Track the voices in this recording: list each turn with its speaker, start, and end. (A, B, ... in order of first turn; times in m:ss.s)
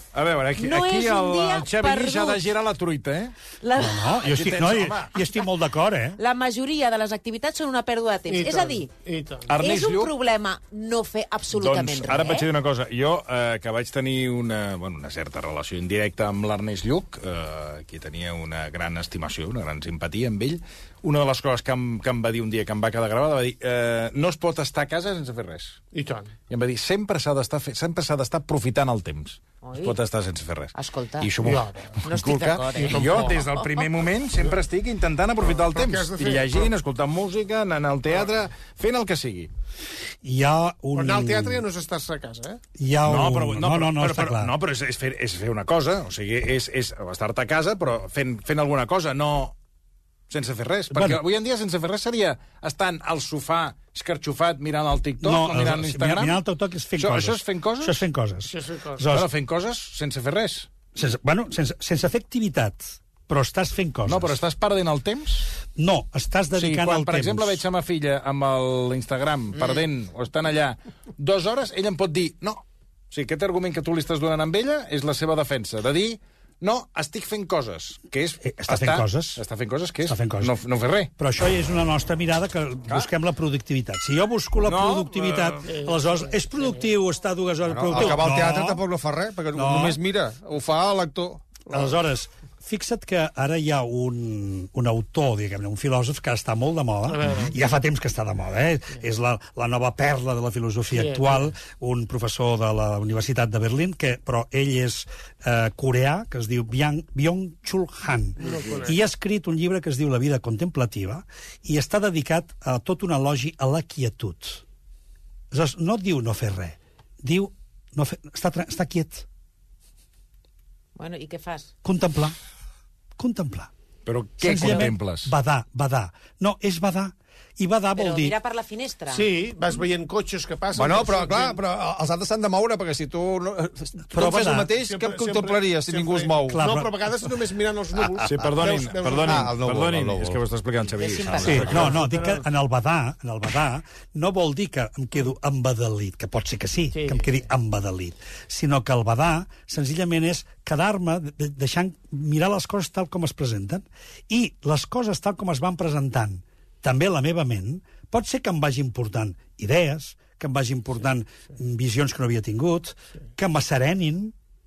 0:00.1-0:03.3 A
0:00.6-0:02.4 B
0:03.6-0:04.2 B
0:03.8-0:06.2 C
0:04.2-0:05.1 A
0:06.2-0:08.9 B
0:08.3-0:09.5 D
0:09.5-0:10.1 A
0:09.6-0:12.5 B
0:11.6-0:25.8 A
0:25.9-0:26.3 D
0:26.5-0:39.5 A
0:29.6-0:30.0 B
0:30.7-0:33.6 B
0:31.4-0:31.9 D
0:32.7-0:33.5 D
0:35.4-0:36.7 D
0:40.2-0:41.6 C
0:40.9-0:42.6 D
0:42.8-0:44.5 C
0:43.0-0:49.5 A
0:50.3-0:56.4 A
0:50.9-0:51.2 C
0:55.2-0:59.3 C
0:57.0-0:58.0 A
0:58.5-0:59.0 D
0:59.1-1:00.7 A
1:00.9-1:04.4 C
1:04.0-1:05.5 A
1:05.8-1:07.6 C
1:06.5-1:21.1 A
1:18.4-1:19.4 C
1:20.0-1:20.5 C
1:21.2-1:28.8 C
1:24.6-1:25.7 A
1:25.6-1:26.8 D
1:27.6-1:31.6 E
1:29.5-1:30.0 C
1:31.7-1:54.6 C
1:37.1-1:37.6 D
1:40.9-1:41.4 D
1:48.4-1:49.0 D
1:55.5-1:59.2 C
2:01.0-2:01.7 B
2:01.8-2:02.4 C
2:03.2-2:03.7 C
2:04.0-2:05.3 A
2:04.4-2:08.3 C
2:08.0-2:09.3 B
2:09.1-2:11.6 D
2:10.7-2:16.7 E
2:14.1-2:14.7 C
2:14.7-2:19.5 D
2:16.5-2:16.9 C
2:18.2-2:21.9 A
2:18.4-2:20.4 E
2:21.0-2:21.9 B
2:21.3-2:21.9 E
2:21.4-2:44.3 C
2:26.9-2:27.4 D